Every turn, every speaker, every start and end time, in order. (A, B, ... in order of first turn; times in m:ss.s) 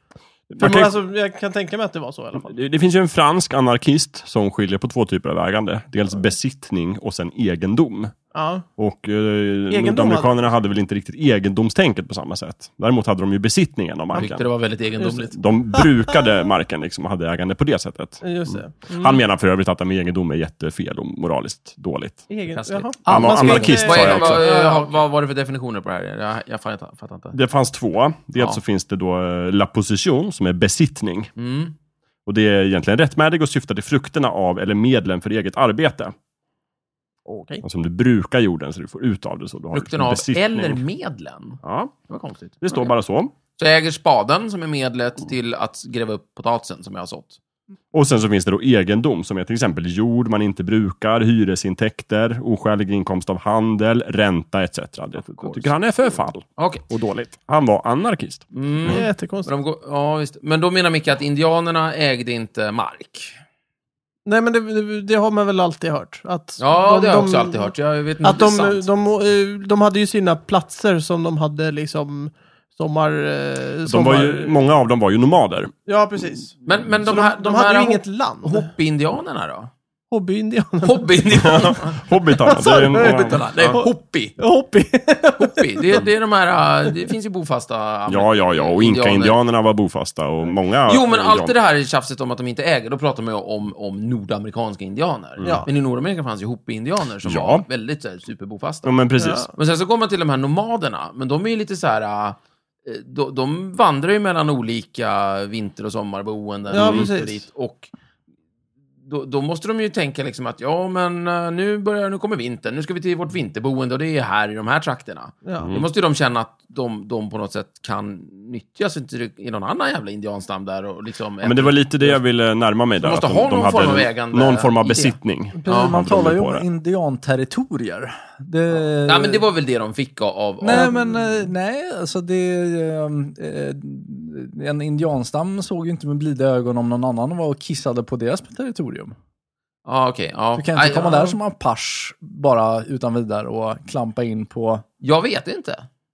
0:00.5-0:01.0 A
0:00.6-0:02.5 B
0:02.4-0:08.1 A
0:08.3-0:08.6 B
0:08.8-0:14.4 A
0:09.7-0:10.3 B
0:14.1-0:15.4 C
0:15.3-0:22.3 A
0:18.2-0:19.2 B
0:22.3-0:24.9 B
0:22.6-0:27.3 C
0:23.0-0:24.4 A
0:23.0-0:24.0 D
0:27.3-0:31.3 A
0:31.4-0:31.7 C
0:32.2-0:36.1 A
0:37.3-0:37.6 B
0:37.6-0:40.8 A
0:39.7-0:42.9 C
0:41.6-0:41.9 A
0:42.6-0:43.3 A
0:43.6-0:47.4 C
0:47.9-0:59.0 A
0:55.4-0:55.7 C
0:56.6-0:56.8 C
0:58.5-1:03.3 C
0:58.9-0:59.5 B
1:04.2-1:07.7 B
1:06.6-1:08.8 C
1:08.2-1:14.6 B
1:13.8-1:15.7 A
1:15.8-1:18.7 B
1:16.6-1:19.7 C
1:20.1-1:21.2 B
1:20.8-1:22.0 C
1:21.4-1:23.8 A
1:22.4-1:26.0 B
1:22.7-1:24.4 C
1:25.4-1:29.4 C
1:28.1-1:31.5 A
1:30.8-1:38.9 C
1:35.4-1:35.6 A
1:35.4-1:35.7 B
1:37.2-1:37.6 A
1:38.8-1:39.5 A
1:39.2-1:39.5 B
1:39.5-1:47.9 C
1:46.7-1:47.4 B
1:46.8-1:47.1 A
1:49.0-2:02.2 C
1:55.4-1:55.7 B
2:01.4-2:06.6 A
2:03.0-2:06.0 C
2:05.6-2:09.4 D
2:09.0-2:11.2 C
2:10.6-2:19.1 D
2:19.8-2:21.3 C
2:20.6-2:24.8 D
2:25.0-2:25.8 C